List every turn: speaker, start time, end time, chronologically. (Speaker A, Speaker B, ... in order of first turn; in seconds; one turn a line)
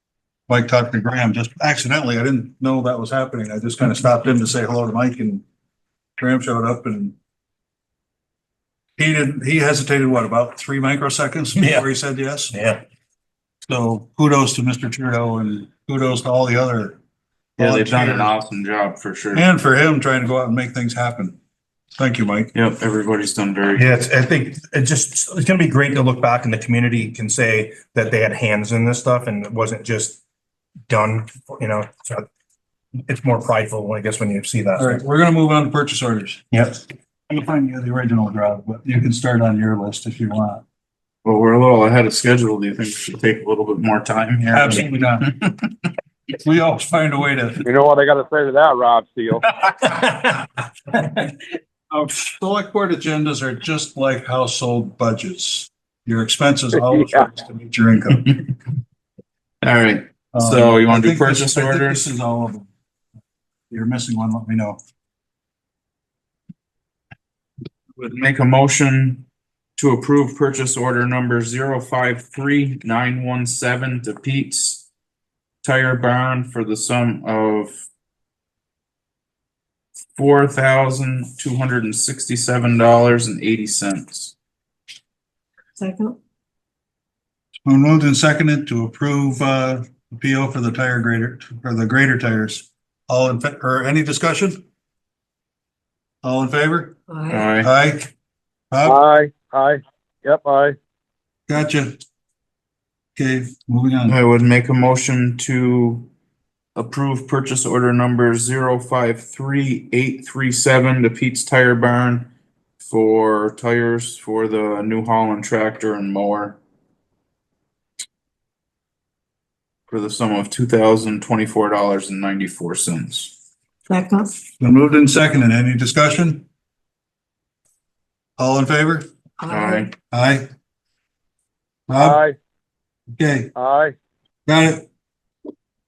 Speaker A: 0.5-5.4
Speaker A: 6.2-7.1
Speaker A: 9.0-12.5
Speaker B: 11.6-11.9
Speaker B: 12.5-12.8
Speaker A: 13.7-17.0
Speaker C: 17.6-19.5
Speaker A: 17.6-18.3
Speaker A: 19.3-21.4
Speaker A: 22.0-22.5
Speaker C: 22.5-23.9
Speaker B: 23.8-30.2
Speaker B: 30.9-32.2
Speaker B: 33.1-35.0
Speaker A: 34.8-36.5
Speaker B: 36.5-36.9
Speaker A: 37.3-40.6
Speaker C: 41.2-45.9
Speaker A: 44.5-45.3
Speaker A: 46.4-47.6
Speaker D: 47.6-49.5
Speaker B: 49.7-50.4
Speaker A: 51.9-58.4
Speaker D: 56.8-57.3
Speaker C: 59.6-62.0
Speaker A: 60.3-62.7
Speaker A: 63.7-64.8
Speaker C: 68.0-69.2
Speaker C: 69.8-74.9
Speaker C: 75.6-77.7
Speaker C: 80.2-84.3
Speaker E: 85.8-86.2
Speaker A: 87.6-94.6
Speaker A: 96.2-97.0
Speaker E: 97.1-97.5
Speaker C: 97.3-97.7
Speaker A: 97.6-98.1
Speaker A: 98.7-99.0
Speaker D: 98.8-100.8
Speaker A: 101.5-102.0
Speaker A: 103.2-104.2
Speaker C: 104.1-106.1
Speaker C: 106.7-112.3
Speaker C: 112.8-116.6
Speaker C: 119.9-123.3
Speaker E: 123.9-124.3
Speaker A: 124.6-126.5
Speaker A: 128.4-129.1
Speaker E: 129.4-129.9
Speaker C: 129.5-129.9
Speaker A: 130.1-130.5
Speaker A: 131.9-132.2
Speaker D: 132.0-132.3
Speaker A: 133.2-133.5
Speaker D: 133.5-133.9
Speaker A: 134.4-134.8